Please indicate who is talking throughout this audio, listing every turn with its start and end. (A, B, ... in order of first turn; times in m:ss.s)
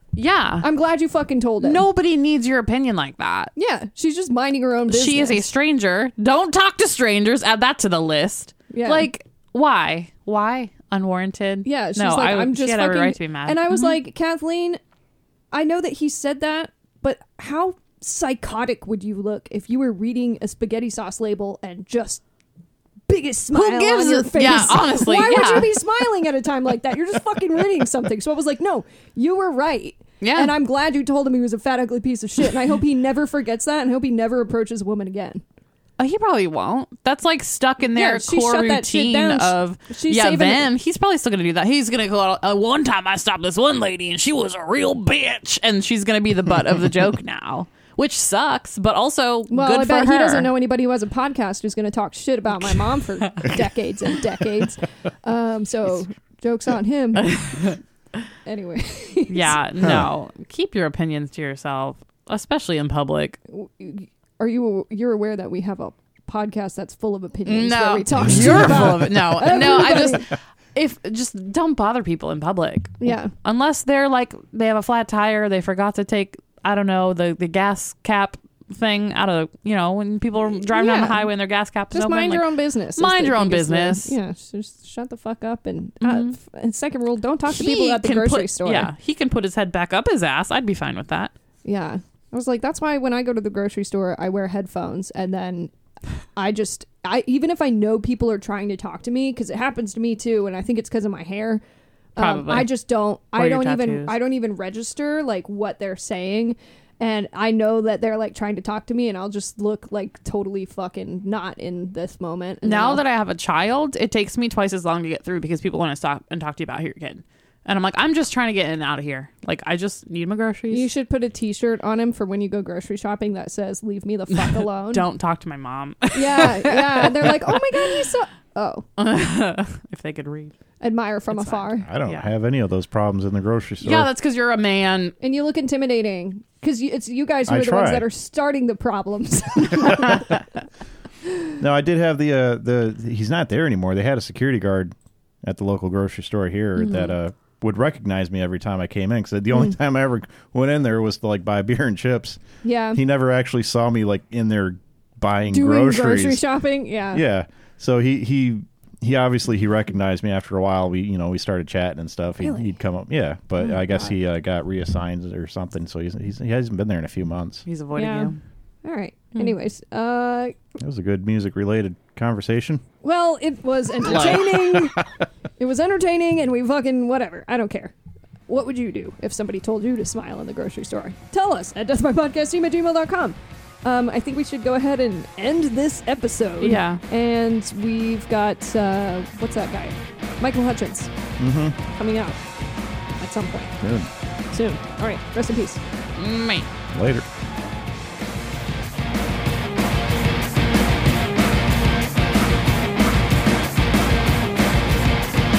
0:00.2-0:00.7 A
0:00.6-0:01.8 B
0:01.6-0:03.5 A
0:03.6-0:05.5 B
0:04.9-0:14.0 A
0:08.7-0:09.1 B
0:11.6-0:14.8 B
0:15.5-0:22.2 B
0:23.1-0:35.4 B
0:23.5-0:25.8 A
0:30.2-0:30.6 A
0:36.0-0:50.5 A
0:38.0-0:40.7 B
0:49.5-0:57.7 B
0:57.2-0:57.8 A
0:58.4-0:59.6 B
0:59.3-1:03.4 A
1:03.5-1:10.3 B
1:07.5-1:24.2 A
1:13.0-1:13.3 B
1:20.7-1:21.2 B
1:21.9-1:28.9 B
1:26.0-1:26.3 A
1:27.5-1:31.3 A
1:31.6-1:35.7 B
1:36.4-1:41.6 B
1:42.2-1:53.0 B
1:42.2-1:42.7 A
1:43.4-1:44.2 A
1:52.6-2:00.9 A
2:00.7-2:05.1 B
2:04.4-2:08.0 A
2:06.1-2:08.9 B
2:09.0-2:10.5 A
2:10.8-2:11.9 B
2:11.3-2:12.3 A
2:11.8-2:14.1 C
2:13.8-2:15.2 A
2:15.2-2:20.4 B
2:17.5-2:18.1 C
2:19.7-2:20.4 C
2:21.6-2:32.4 C
2:32.6-2:33.0 B
2:32.9-2:36.4 C
2:35.5-2:37.2 B
2:37.1-2:47.7 C
2:47.7-2:48.4 A
2:47.9-2:48.3 B
2:48.8-2:50.6 B
2:50.8-2:52.8 C
2:53.0-2:55.0 B
2:54.0-2:54.5 A
2:54.7-2:55.1 C
2:55.6-2:57.9 B
2:58.5-3:11.1 B
3:06.6-3:07.0 A
3:11.4-3:11.8 C
3:11.9-3:12.4 B
3:13.2-3:13.8 B
3:13.8-3:14.1 C
3:14.5-3:15.8 B
3:16.2-3:16.7 A
3:16.9-3:17.3 C